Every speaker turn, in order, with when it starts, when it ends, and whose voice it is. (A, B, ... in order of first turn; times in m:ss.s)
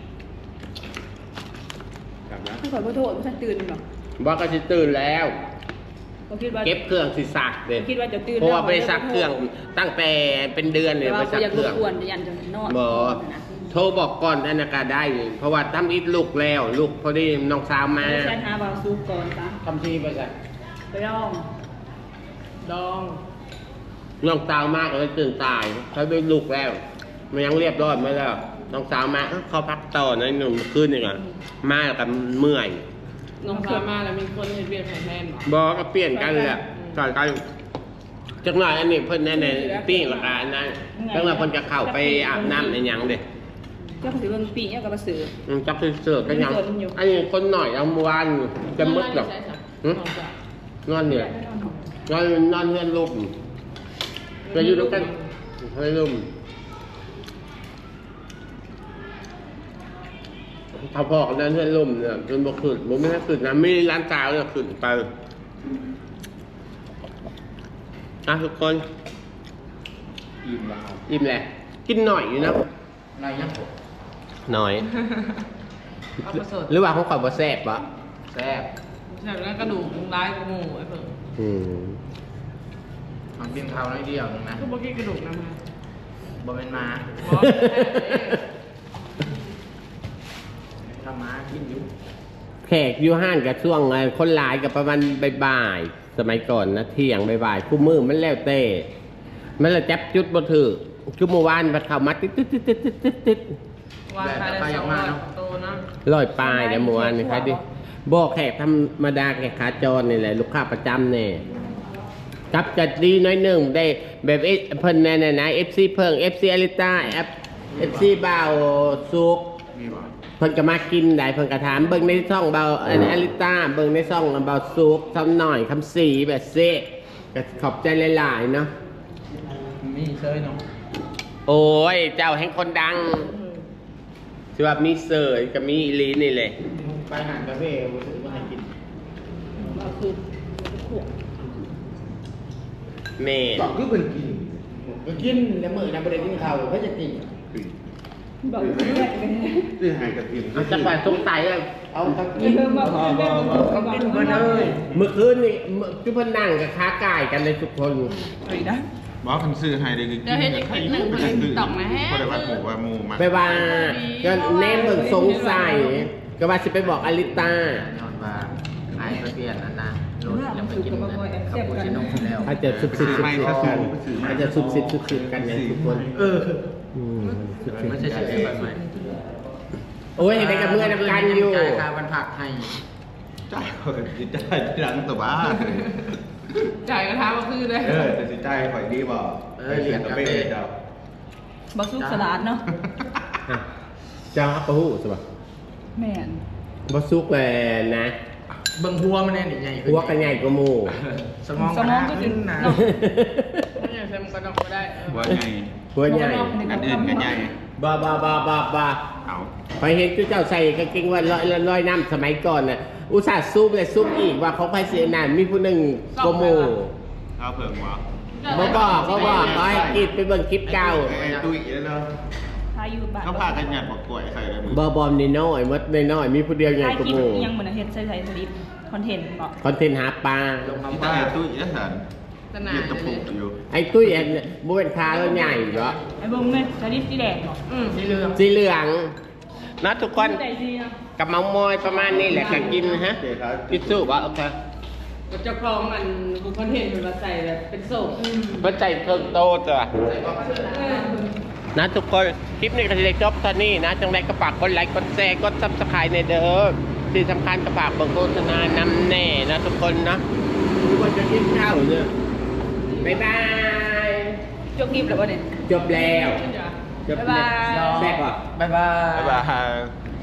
0:02.6-0:03.8 A
0:04.2-0:05.4 B
0:06.3-0:06.8 A
0:06.6-0:11.9 B
0:07.8-0:09.4 A
0:11.0-0:13.6 A
0:12.7-0:18.4 B
0:18.0-0:19.6 A
0:19.6-0:20.3 C
0:20.9-0:21.5 A
0:22.6-0:23.2 D
0:24.2-0:26.8 B
0:27.3-0:32.8 B
0:33.4-0:35.5 D
0:33.5-0:33.8 A
0:35.5-0:37.4 B
0:36.2-0:37.0 D
0:38.4-0:43.2 B
0:39.3-0:40.3 A
0:40.9-0:42.8 A
0:44.0-0:45.3 A
0:45.5-0:49.3 B
0:46.2-0:47.0 A
0:48.7-0:50.3 D
0:50.9-0:51.4 B
0:51.3-0:51.7 A
0:52.1-0:53.3 B
0:54.4-0:55.3 D
0:54.5-0:55.1 B
0:55.6-0:56.3 B
1:00.8-1:05.1 B
1:08.3-1:08.9 B
1:10.4-1:11.0 C
1:11.1-1:12.7 B
1:13.2-1:13.7 C
1:14.5-1:14.9 B
1:16.2-1:16.7 D
1:16.3-1:17.9 B
1:18.3-1:18.7 C
1:19.1-1:21.1 D
1:21.4-1:22.0 B
1:23.4-1:24.6 C
1:24.6-1:25.6 D
1:26.4-1:27.2 C
1:27.2-1:28.4 D
1:27.3-1:28.4 B
1:30.9-1:31.9 C
1:32.6-1:38.9 B
1:39.6-1:43.6 B
1:44.1-1:45.8 D
1:44.2-1:45.2 C
1:46.0-1:51.4 B
1:46.5-1:47.6 D
1:52.5-1:59.5 B
1:59.8-2:00.1 E
2:00.4-2:08.7 B
2:09.8-2:10.6 C
2:11.5-2:13.3 B
2:14.6-2:16.6 B
2:16.7-2:18.7 C
2:19.6-2:21.1 A
2:23.2-2:23.7 B
2:23.6-2:24.6 E
2:24.7-2:27.3 C
2:28.4-2:29.7 A
2:28.6-2:29.2 E
2:28.8-2:29.1 D
2:29.8-2:31.0 E
2:30.5-2:31.9 B
2:32.0-2:34.8 C
2:32.4-2:34.7 A
2:32.8-2:33.6 E
2:34.6-2:35.0 E
2:34.9-2:38.1 B
2:38.4-2:38.9 A
2:39.2-2:43.5 E
2:40.2-2:42.6 D
2:43.2-2:47.8 B
2:43.4-2:46.0 D
2:46.8-2:53.8 C
2:50.3-2:52.5 A
2:52.4-2:56.0 B
2:52.5-2:56.4 E
2:56.2-2:56.6 C
2:57.0-2:57.7 B
2:57.6-2:58.8 E
2:57.6-2:58.8 C
3:00.2-3:01.9 B
3:00.2-3:02.8 C
3:03.5-3:05.9 E
3:05.5-3:05.9 D
3:06.8-3:08.2 D
3:07.8-3:10.7 E
3:09.6-3:10.6 C
3:11.7-3:12.6 A
3:12.0-3:12.5 C
3:14.3-3:15.2 B
3:16.0-3:16.4 A
3:16.9-3:18.1 B
3:18.8-3:20.5 C
3:19.8-3:21.0 B
3:21.4-3:22.8 C
3:21.6-3:22.9 A
3:22.6-3:23.7 B
3:23.8-3:25.4 D
3:25.1-3:25.9 E
3:25.9-3:26.8 B
3:26.0-3:27.3 A
3:26.5-3:27.6 E
3:26.7-3:27.2 D
3:27.8-3:29.0 B
3:29.2-3:29.5 E
3:29.8-3:36.9 B
3:36.2-3:36.8 D
3:37.4-3:40.1 E
3:38.4-3:39.9 D
3:38.5-3:41.2 B
3:38.9-3:40.0 C
3:40.7-3:41.6 C
3:40.9-3:42.1 E
3:42.7-3:43.7 A
3:43.2-3:44.8 E
3:44.7-3:47.5 B
3:46.8-3:49.6 A
3:49.6-3:50.8 B
3:50.6-3:51.4 C
3:50.9-3:52.0 E
3:52.5-3:53.3 D
3:52.7-3:53.6 E
3:53.7-3:56.0 B
3:56.1-3:57.6 A
3:57.7-3:58.0 D
3:57.9-3:58.4 C
3:58.4-3:59.2 B
3:59.8-4:00.4 B
4:00.1-4:01.0 A
4:01.2-4:04.6 B
4:02.0-4:04.2 E
4:02.4-4:02.6 A
4:05.3-4:08.7 D
4:08.6-4:09.9 B
4:10.0-4:10.9 C
4:10.3-4:11.3 D
4:11.8-4:20.2 B
4:20.8-4:22.1 B
4:23.0-4:24.4 B
4:24.8-4:25.5 A
4:25.7-4:26.4 B
4:25.9-4:26.8 D
4:27.1-4:28.4 B
4:27.1-4:28.1 A
4:27.6-4:29.5 C
4:29.1-4:30.0 E